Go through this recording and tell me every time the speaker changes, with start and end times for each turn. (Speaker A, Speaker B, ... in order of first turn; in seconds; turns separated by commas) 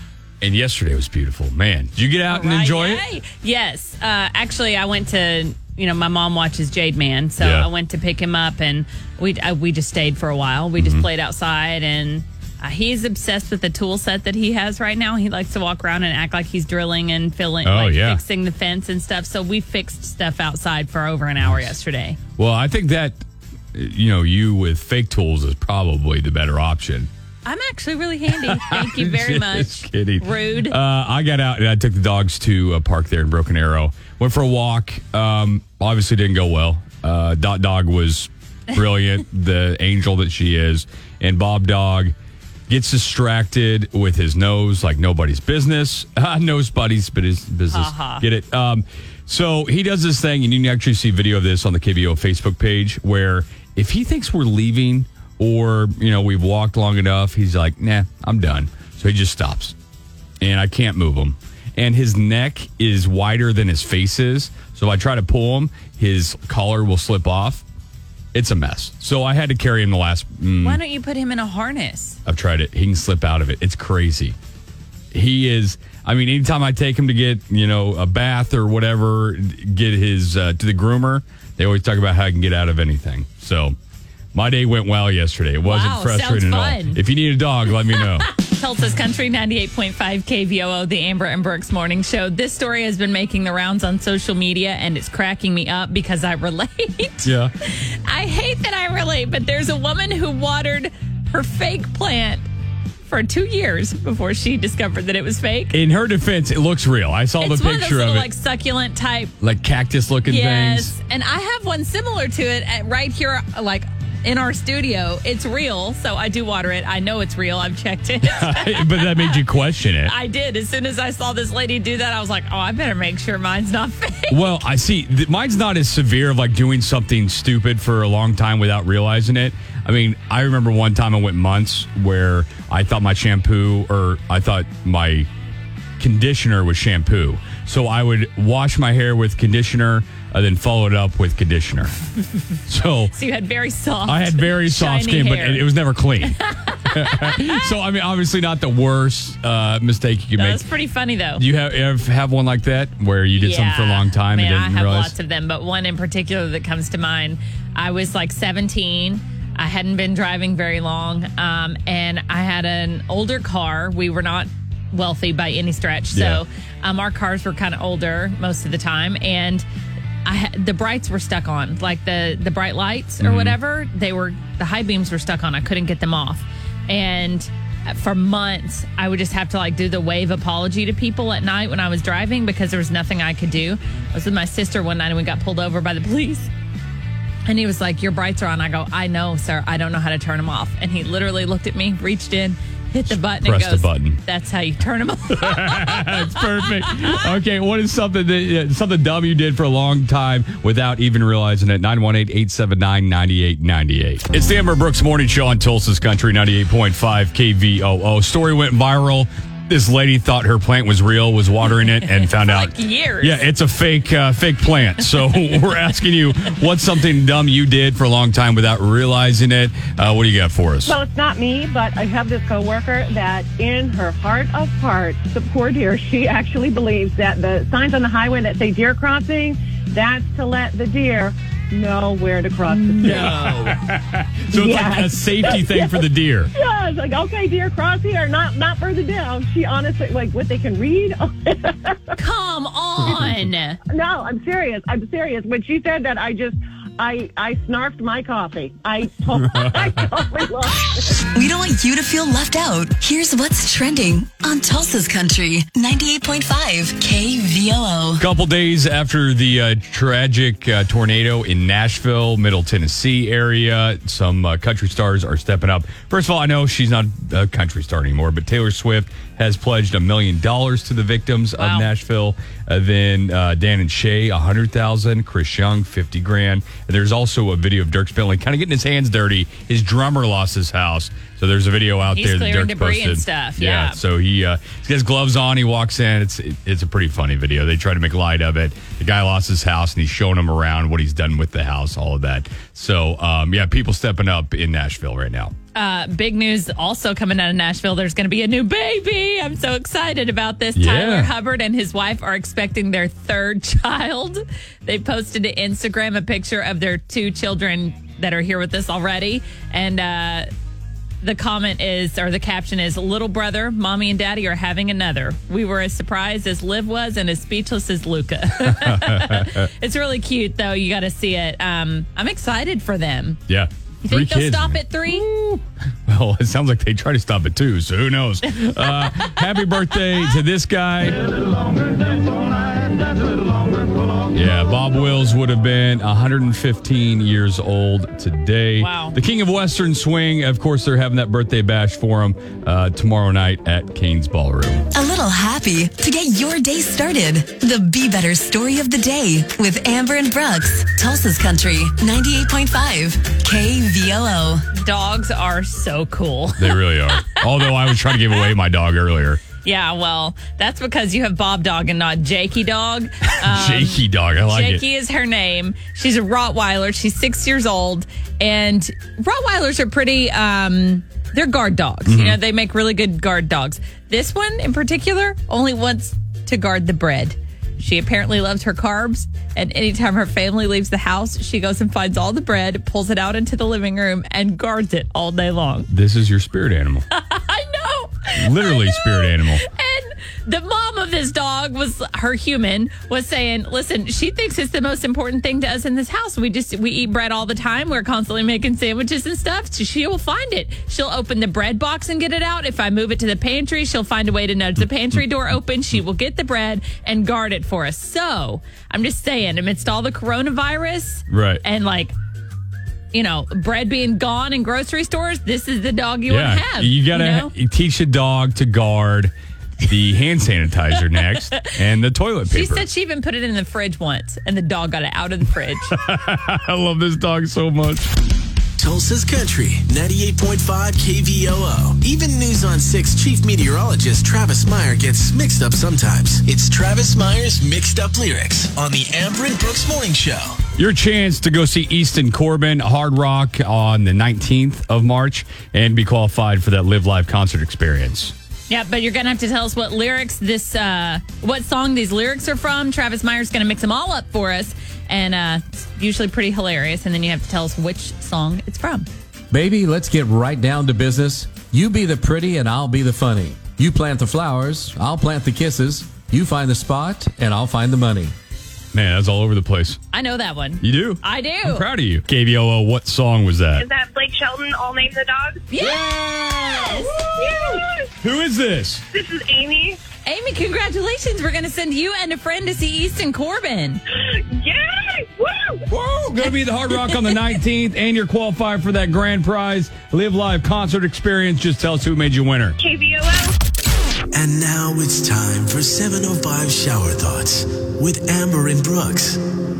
Speaker A: 0.4-3.0, Speaker B: 2.3-22.2, Speaker A: 7.4-7.7, Speaker A: 10.8-11.0, Speaker A: 17.6-18.2, Speaker A: 21.4-21.7, Speaker A: 22.4-23.2, Speaker A: 23.7-27.1, Speaker B: 27.4-30.8, Speaker A: 28.4-42.1, Speaker A: 42.7-59.7, Speaker B: 47.7-48.2, Speaker A: 60.4-67.6, Speaker A: 68.3-70.8, Speaker B: 70.6-72.2, Speaker A: 72.2-74.3, Speaker A: 75.1-83.8, Speaker A: 84.3-88.3, Speaker B: 85.6-87.0, Speaker B: 87.9-102.5, Speaker A: 97.2-97.5, Speaker B: 103.0-105.8, Speaker A: 105.7-108.3, Speaker B: 107.4-109.3, Speaker A: 109.4-110.9, Speaker B: 110.2-124.6, Speaker A: 118.2-120.1, Speaker A: 124.3-135.3, Speaker A: 136.0-141.9, Speaker A: 142.7-143.1, Speaker B: 143.1-145.7, Speaker A: 144.1-146.4, Speaker B: 146.2-147.7, Speaker A: 146.9-150.7, Speaker B: 150.4-151.4, Speaker A: 151.3-155.1, Speaker B: 153.3-169.6, Speaker A: 166.1-166.4, Speaker B: 170.2-186.5, Speaker A: 173.2-173.6, Speaker B: 187.5-196.9, Speaker A: 193.1-194.2, Speaker A: 195.3-220.9, Speaker B: 212.0-213.4, Speaker C: 220.8-233.7, Speaker A: 232.8-236.5, Speaker C: 234.5-242.1, Speaker B: 242.2-243.8, Speaker C: 243.9-251.2, Speaker D: 251.3-258.2, Speaker A: 258.2-295.5, Speaker B: 271.5-271.9, Speaker B: 282.1-284.0, Speaker B: 295.7-310.5, Speaker A: 300.8-301.3, Speaker B: 311.2-323.4, Speaker A: 318.8-319.5, Speaker A: 323.5-331.3, Speaker B: 324.1-325.2, Speaker B: 328.8-329.2, Speaker A: 334.3-344.9, Speaker B: 338.8-339.1, Speaker D: 344.9-354.6, Speaker B: 354.7-358.5, Speaker A: 356.6-359.4, Speaker B: 359.6-385.9, Speaker A: 363.4-364.8, Speaker A: 372.1-372.4, Speaker A: 385.9-387.1, Speaker B: 387.1-412.1, Speaker A: 388.4-389.6, Speaker A: 411.3-411.6, Speaker B: 413.1-417.5, Speaker A: 416.3-422.8, Speaker B: 422.5-425.9, Speaker A: 425.9-428.1, Speaker E: 428.8-440.6, Speaker A: 440.8-448.3, Speaker B: 448.7-459.1, Speaker F: 459.5-468.3, Speaker A: 468.9-470.0, Speaker B: 470.1-471.9, Speaker A: 470.8-473.9, Speaker G: 473.7-475.7, Speaker B: 475.7-476.1, Speaker A: 475.8-479.0, Speaker B: 476.8-477.1, Speaker G: 477.4-478.1, Speaker G: 479.1-479.9, Speaker C: 479.4-479.9, Speaker B: 480.2-484.0, Speaker G: 484.5-485.8, Speaker A: 485.9-492.8, Speaker G: 492.8-493.5, Speaker E: 494.3-499.4